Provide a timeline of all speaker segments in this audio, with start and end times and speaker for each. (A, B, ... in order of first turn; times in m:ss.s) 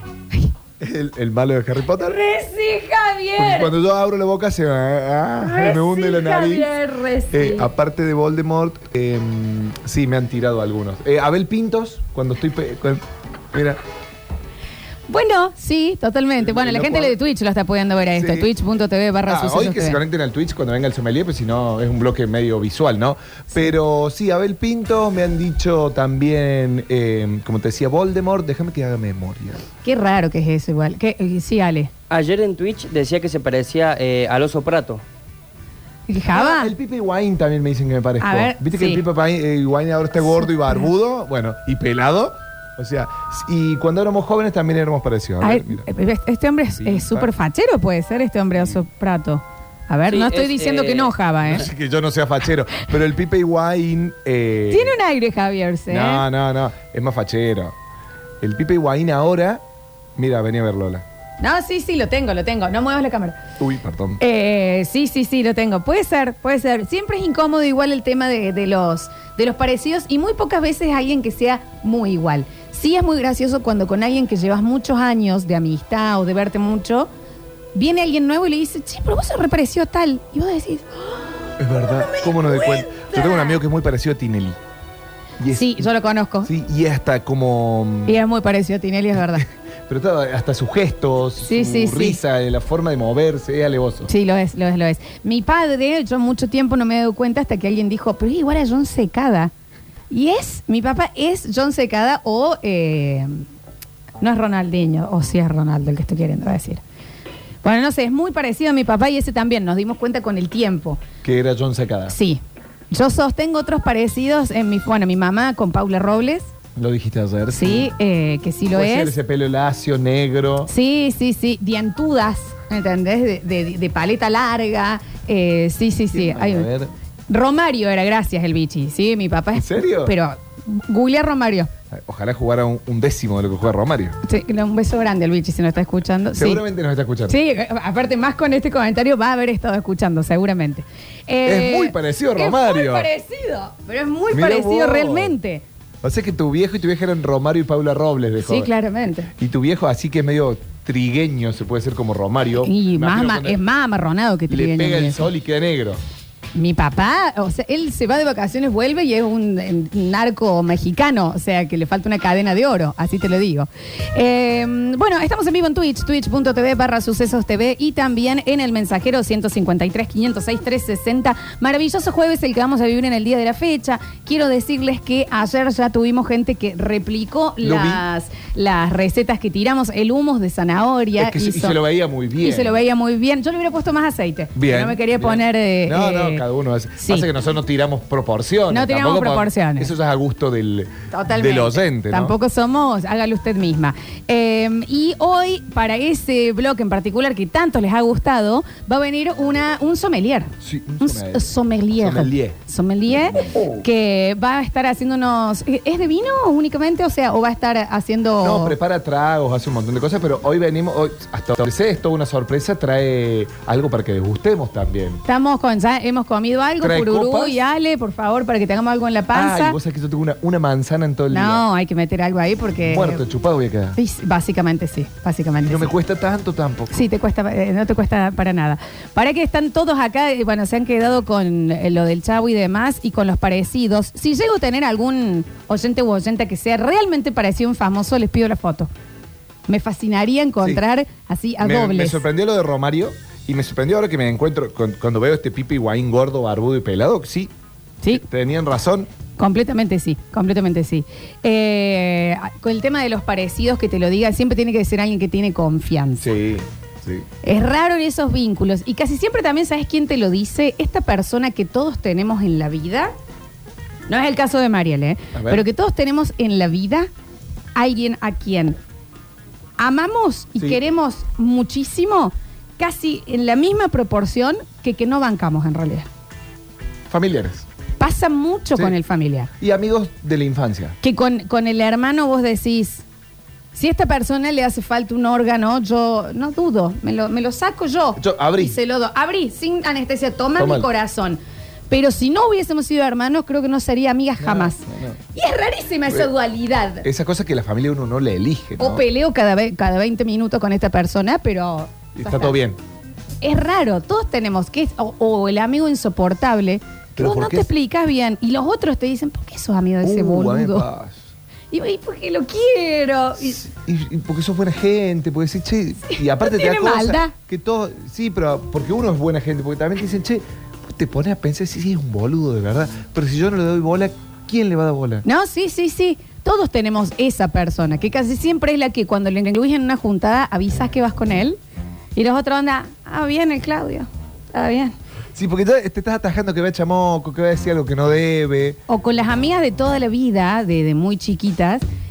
0:00.8-0:02.2 A
0:02.0-0:03.7 B
0:03.4-0:06.7 A
0:05.4-0:07.7 B
0:07.3-0:13.8 A
0:15.1-0:20.0 B
0:16.4-0:17.2 A
0:18.2-0:18.5 A
0:19.2-0:29.6 A
0:29.8-0:31.9 B
0:32.1-0:35.0 C
0:36.1-0:36.7 B
0:36.3-0:45.8 A
0:38.2-0:39.0 B
0:40.2-0:40.8 B
0:45.4-0:51.7 B
0:46.8-0:47.3 A
0:50.1-0:51.1 C
0:51.4-0:55.0 A
0:54.7-0:56.2 B
0:55.9-0:57.7 A
0:58.4-0:59.6 A
1:00.2-1:01.0 A
1:01.4-1:03.4 B
1:03.6-1:04.2 A
1:04.2-1:17.1 B
1:17.7-1:23.6 B
1:21.6-1:24.6 A
1:25.4-1:25.9 A
1:25.5-1:26.5 B
1:26.4-1:28.2 A
1:28.0-1:29.4 B
1:29.9-1:34.1 A
1:31.4-1:32.2 B
1:34.1-1:39.5 B
1:40.1-1:43.4 B
1:44.2-1:46.8 B
1:47.6-1:51.0 B
1:51.2-1:52.2 A
1:52.1-1:56.5 B
1:56.8-1:57.9 A
1:57.5-1:59.1 B
1:58.7-2:00.7 A
2:00.7-2:06.7 B
2:06.1-2:06.9 A
2:07.3-2:11.7 B
2:09.5-2:10.1 A
2:11.9-2:14.2 A
2:14.2-2:16.6 B
2:16.3-2:17.4 A
2:17.3-2:25.6 B
2:21.4-2:23.1 A
2:24.3-2:25.4 A
2:26.0-2:28.7 A
2:28.4-2:29.3 B
2:29.3-2:33.6 A
2:32.6-2:35.3 B
2:34.5-2:36.0 A
2:36.5-3:01.8 B
2:57.6-2:58.0 A
3:01.2-3:02.8 A
3:02.4-3:06.4 B
3:04.5-3:12.4 A
3:07.0-3:07.3 B
3:08.7-3:09.9 B
3:11.1-3:28.8 B
3:20.6-3:22.6 A
3:23.4-3:23.8 A
3:28.4-3:35.2 A
3:35.2-3:39.8 B
3:36.8-3:37.6 A
3:39.3-3:41.6 A
3:41.3-3:43.2 B
3:42.8-3:44.0 A
3:44.0-3:46.0 B
3:45.6-3:47.0 A
3:46.9-3:58.9 B
3:59.7-4:02.2 B
4:01.6-4:07.5 A
4:08.1-4:09.1 A
4:09.4-4:16.3 B
4:16.2-4:17.3 A
4:17.4-4:23.1 B
4:24.1-4:27.1 B
4:25.3-4:25.6 A
4:27.8-4:28.8 B
4:29.8-4:36.1 B
4:37.1-4:37.6 A
4:38.0-4:39.5 B
4:39.6-4:41.0 A
4:41.0-4:43.0 B
4:43.7-4:51.4 B
4:48.2-4:48.8 A
4:50.6-4:50.9 A
4:51.9-4:54.8 B
4:54.4-4:55.2 A
4:55.3-4:57.0 B
4:57.0-4:59.0 A
4:58.8-5:02.6 B
5:02.2-5:02.8 A
5:03.4-5:10.8 B
5:07.2-5:07.7 A
5:10.0-5:11.3 A
5:11.7-5:13.6 B
5:13.4-5:25.2 A
5:16.1-5:17.3 B
5:25.2-5:31.6 B
5:32.2-5:34.9 B
5:35.3-5:38.8 A
5:38.9-5:41.8 B